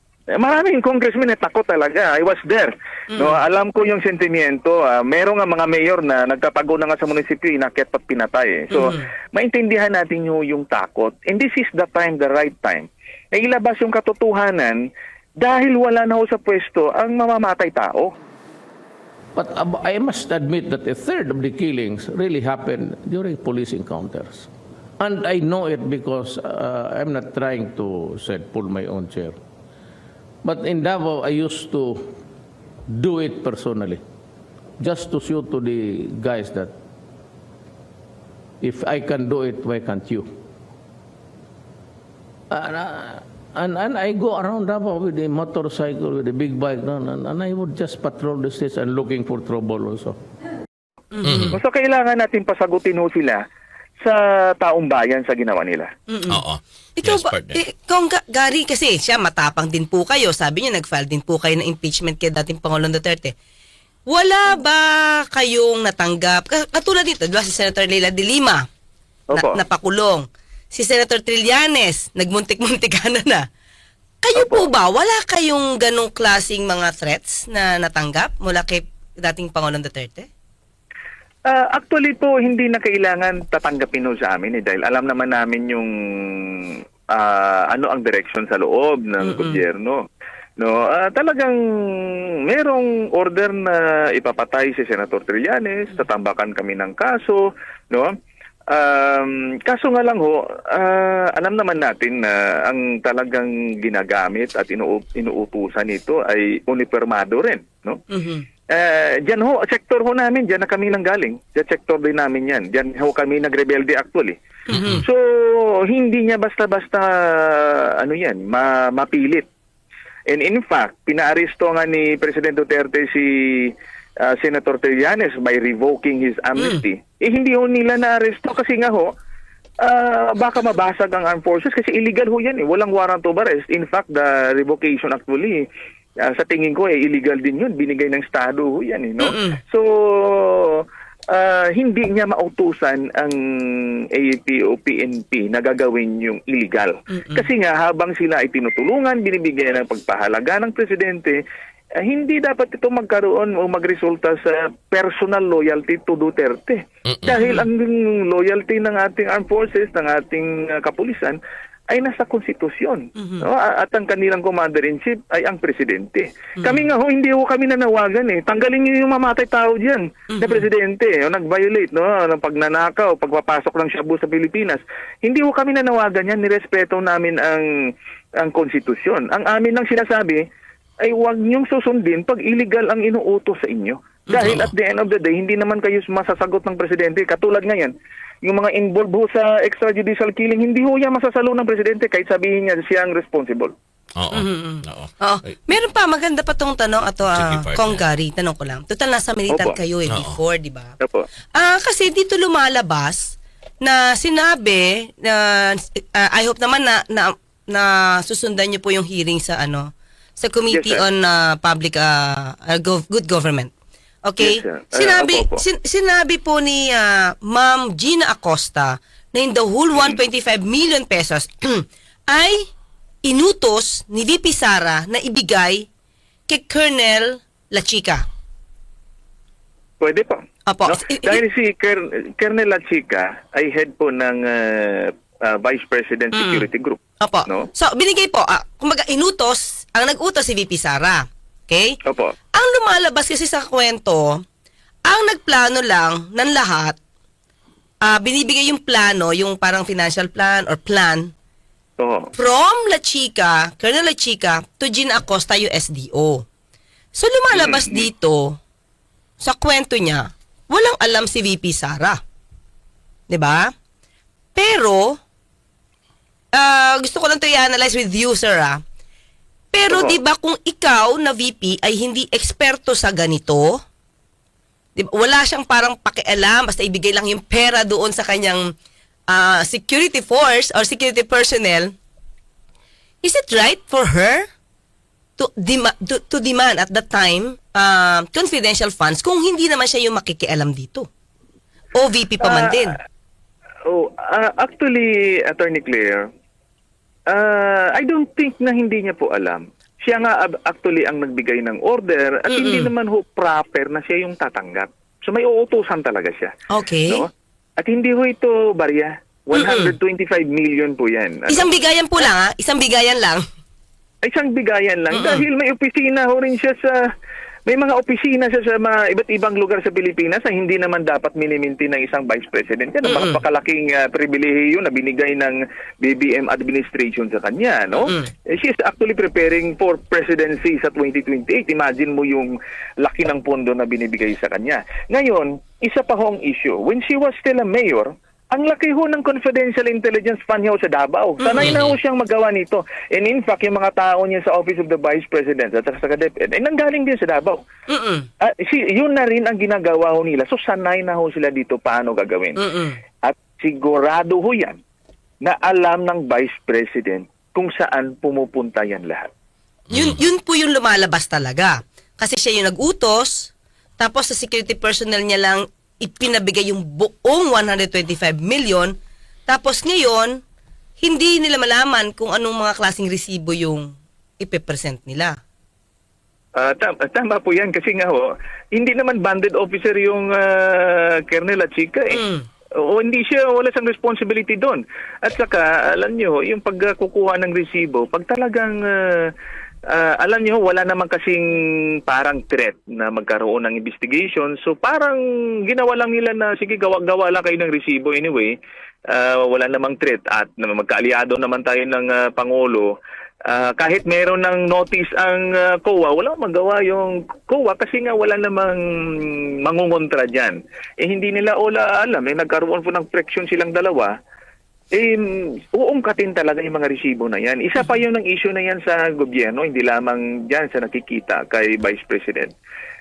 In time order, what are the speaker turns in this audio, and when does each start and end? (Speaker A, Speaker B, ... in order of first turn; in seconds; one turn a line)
Speaker A: 0.4-14.8
Speaker B: 8.7-9.0
Speaker A: 15.4-18.1
Speaker C: 19.4-29.4
Speaker C: 30.4-32.1
Speaker C: 32.9-34.0
Speaker C: 34.8-36.7
Speaker C: 38.6-40.3
Speaker C: 42.5-50.2
Speaker B: 51.1-51.5
Speaker D: 51.2-51.6
Speaker A: 51.5-53.4
Speaker A: 54.0-55.9
Speaker B: 56.1-56.4
Speaker D: 56.3-57.6
Speaker B: 57.0-63.3
Speaker B: 64.1-68.6
Speaker A: 69.3-69.6
Speaker B: 69.3-73.4
Speaker B: 74.2-80.3
Speaker A: 74.4-74.6
Speaker A: 81.5-90.0
Speaker B: 89.2-89.6
Speaker A: 90.6-97.4
Speaker A: 98.7-108.0
Speaker B: 108.1-108.4
Speaker A: 108.7-114.3
Speaker B: 114.7-115.0
Speaker D: 114.7-115.0
Speaker A: 114.9-119.5
Speaker A: 120.3-123.7
Speaker A: 124.3-129.1
Speaker A: 129.8-135.6
Speaker A: 136.2-140.8
Speaker B: 139.2-139.6
Speaker A: 141.3-151.4
Speaker B: 147.1-147.4
Speaker A: 152.0-161.4
Speaker D: 157.1-157.4
Speaker B: 157.3-157.7
Speaker A: 161.9-177.7
Speaker B: 163.2-163.5
Speaker B: 166.6-166.9
Speaker B: 170.3-170.7
Speaker A: 178.4-180.4
Speaker A: 181.0-193.7
Speaker D: 184.3-184.7
Speaker D: 194.2-195.1
Speaker B: 194.3-200.9
Speaker D: 197.3-198.0
Speaker A: 199.5-199.7
Speaker D: 200.1-200.4
Speaker A: 201.0-201.3
Speaker B: 201.5-213.7
Speaker A: 210.7-211.0
Speaker B: 214.2-222.7
Speaker A: 214.4-215.6
Speaker B: 223.2-225.9
Speaker B: 226.5-228.2
Speaker A: 230.0-237.7
Speaker B: 230.7-231.4
Speaker B: 236.3-236.7
Speaker B: 237.2-242.0
Speaker A: 242.1-242.3
Speaker B: 242.5-244.4
Speaker B: 245.0-247.0
Speaker B: 248.0-251.3
Speaker A: 252.0-252.3
Speaker B: 252.3-256.4
Speaker B: 257.1-258.6
Speaker A: 257.5-258.0
Speaker B: 259.4-262.2
Speaker B: 263.3-263.7
Speaker B: 264.5-265.2
Speaker B: 266.5-268.8
Speaker B: 269.7-273.8
Speaker A: 269.9-270.2
Speaker B: 274.9-278.7
Speaker B: 279.3-281.9
Speaker B: 283.2-284.4
Speaker B: 285.4-291.1
Speaker B: 291.9-293.0
Speaker A: 292.4-292.9
Speaker A: 293.9-296.3
Speaker A: 297.3-306.5
Speaker B: 302.5-302.9
Speaker B: 306.7-307.2
Speaker A: 307.8-311.6
Speaker B: 309.5-309.9
Speaker B: 311.5-313.4
Speaker A: 314.2-317.0
Speaker B: 315.1-315.4
Speaker A: 317.7-347.6
Speaker B: 323.0-323.4
Speaker B: 341.4-341.8
Speaker D: 341.6-341.9
Speaker B: 347.9-348.3
Speaker A: 348.4-352.6
Speaker B: 352.6-353.0
Speaker A: 353.2-354.8
Speaker A: 355.4-359.3
Speaker D: 359.9-360.2
Speaker B: 359.9-368.9
Speaker B: 369.5-370.4
Speaker B: 371.0-375.4
Speaker A: 376.6-382.2
Speaker B: 382.1-382.4
Speaker A: 382.8-389.3
Speaker A: 389.9-398.6
Speaker A: 399.1-402.9
Speaker A: 403.4-414.1
Speaker A: 414.9-422.5